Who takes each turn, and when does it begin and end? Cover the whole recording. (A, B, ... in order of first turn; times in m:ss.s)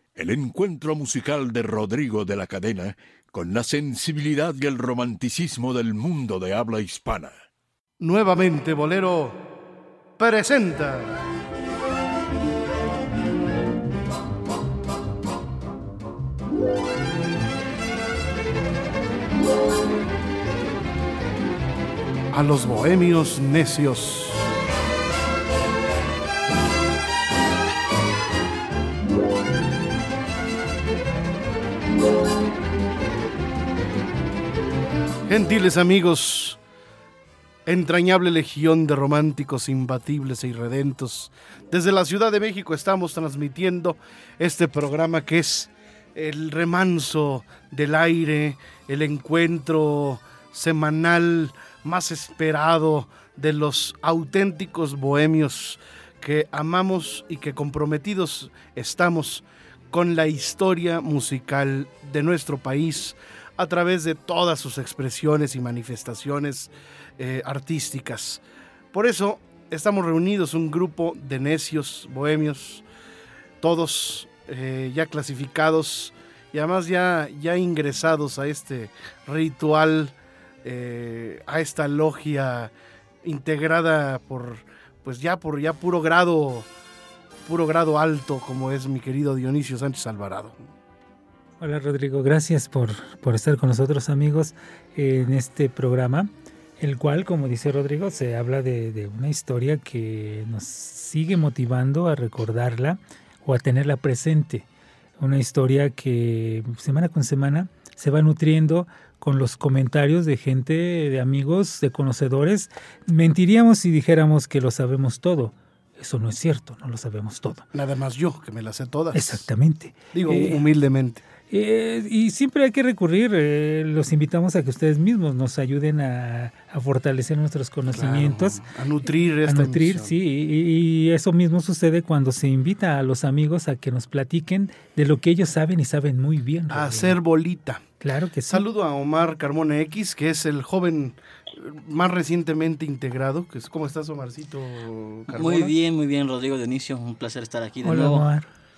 0:00.2-0:07.4 A
0:08.0-0:09.4 B
0:10.2-0:11.2 B
0:22.3-0:24.5 B
0:35.3-0:36.6 B
0:37.7-1:12.8 B
1:13.6-1:26.7 B
1:27.5-1:30.6 B
1:31.6-1:44.7 C
1:45.2-1:57.6 C
1:57.7-1:59.4 B
1:59.1-2:00.6 C
2:00.1-2:01.2 B
2:01.5-2:08.6 C
2:07.9-2:10.1 B
2:09.5-2:17.2 C
2:16.7-2:17.8 B
2:18.0-2:18.6 C
2:18.5-2:25.7 B
2:25.3-2:28.3 D
2:27.8-2:28.5 C